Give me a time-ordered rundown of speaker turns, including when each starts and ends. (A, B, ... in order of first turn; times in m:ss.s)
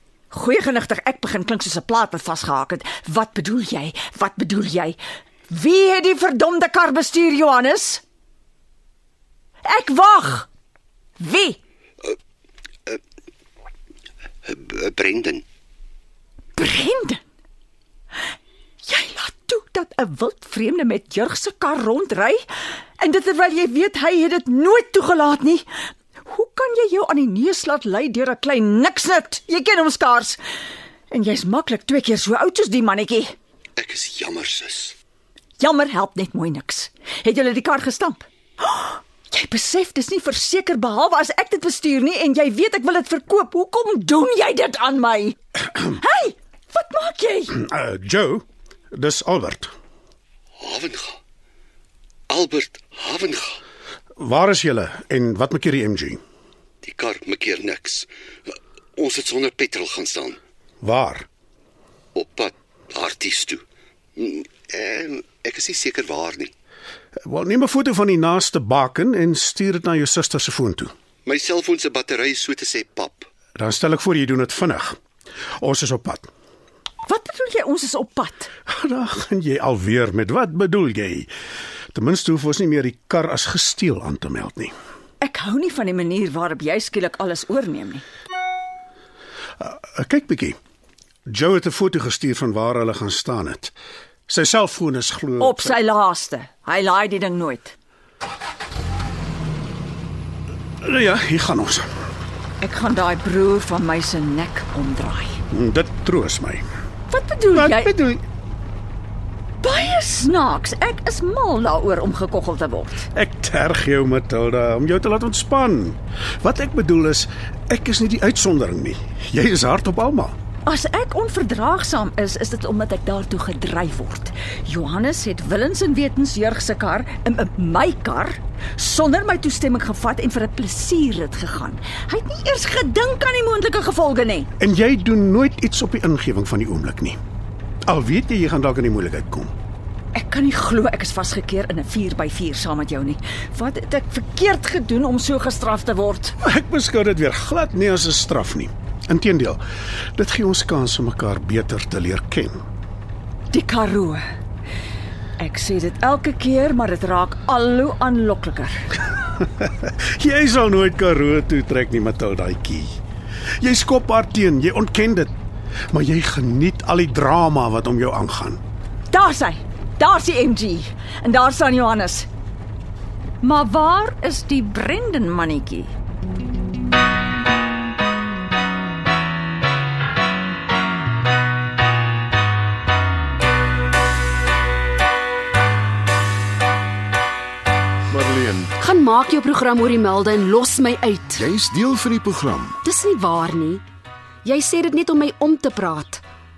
0:00.3-0:08.0 A
0:09.6-0:10.5 A
0:11.2-0:11.6 A
0:14.4-0:15.4 B
0:16.6-0:17.2 A
0:18.8-0:22.5 A
0:23.0-0:25.7 A
0:26.2-0:30.4 A
0:31.1-0:33.3 A
0:33.8-0:35.0 B
0:35.6-0:47.6 A
0:47.6-0:49.7 C
0:50.6-0:51.2 B
0:52.3-0:53.6 B
0:54.2-0:56.2 C
0:56.8-0:58.1 B
0:59.0-1:00.4 B
1:00.8-1:01.3 C
1:02.2-1:03.6 B
1:04.2-1:06.5 B
1:07.2-1:10.9 C
1:11.2-1:13.3 B
1:13.6-1:15.0 C
1:15.6-1:16.3 C
1:17.0-1:18.5 A
1:18.7-1:21.3 C
1:21.9-1:24.7 C
1:25.2-1:28.0 A
1:29.6-1:30.6 C
1:31.3-1:33.7 C
1:34.3-1:35.8 C
1:35.4-1:37.7 A
1:40.8-1:41.8 C
1:42.6-1:45.4 A
1:45.5-1:46.6 C
1:47.1-1:47.9 A
1:47.5-1:48.2 C
1:49.6-1:53.1 A
1:53.1-2:00.3 C
2:00.6-2:14.5 A
2:14.6-2:17.2 C
2:17.8-2:19.5 C
2:20.1-2:26.3 A
2:26.4-2:29.6 C
2:30.2-2:32.6 C
2:33.5-2:34.2 A
2:35.4-2:38.8 A
2:39.4-2:43.0 C
2:43.6-2:45.3 C
2:45.9-2:48.6 C
2:49.1-2:52.3 A
2:53.4-2:55.9 A
3:08.1-3:08.7 D
3:08.8-3:11.4 E
3:11.4-3:12.8 D
3:12.8-3:13.8 E
3:14.4-3:16.2 E